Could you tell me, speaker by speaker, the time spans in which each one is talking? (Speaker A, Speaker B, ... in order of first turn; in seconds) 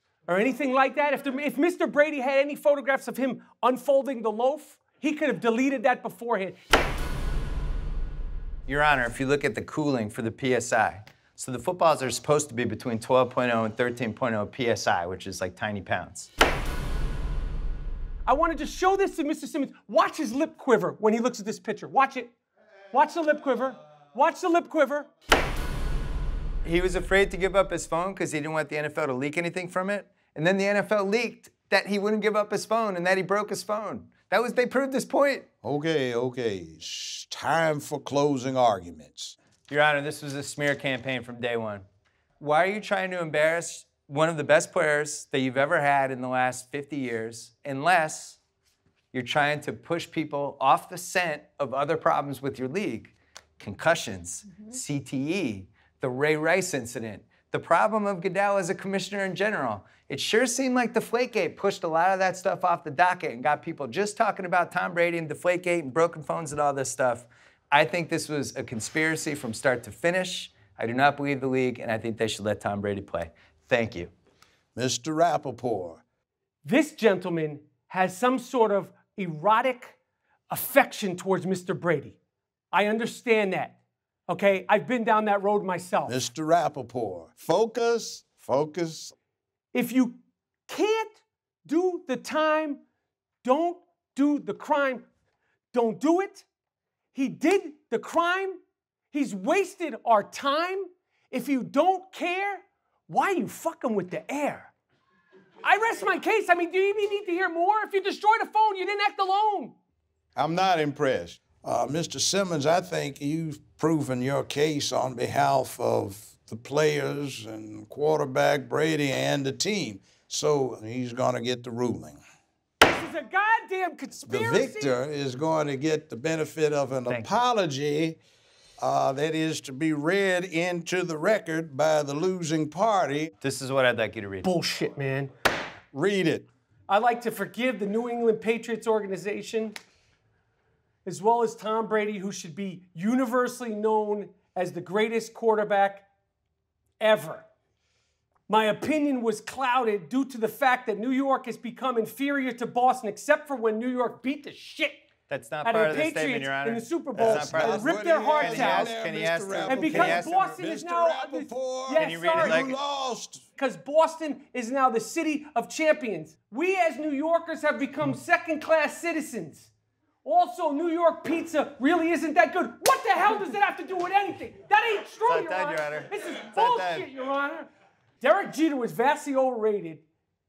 Speaker A: 0.3-6.6, 18.2-22.3, 22.9-25.1, 76.6-80.0, 80.5-82.2, 82.7-83.8, 84.3-86.2, 89.7-92.8, 93.4-95.0, 95.7-96.5, 97.1-98.6, 99.1-104.7, 105.6-109.7, 122.8-125.0, 134.4-135.3, 136.9-139.8, 141.0-146.1, 147.0-147.4, 148.5-155.0, 155.6-158.9, 159.7-162.7, 163.6-169.7, 170.2-177.7, 178.2-180.0
Speaker B: 8.7-16.3, 26.6-35.5, 39.7-41.8, 42.4-48.4, 49.1-74.1, 133.4-134.5, 155.3-160.5, 161.9-162.8, 175.2-177.1
Speaker C: 35.6-39.4, 74.8-76.0, 86.1-89.1, 110.3-122.2, 124.3-128.2, 128.8-133.3, 135.9-136.5, 157.2-163.4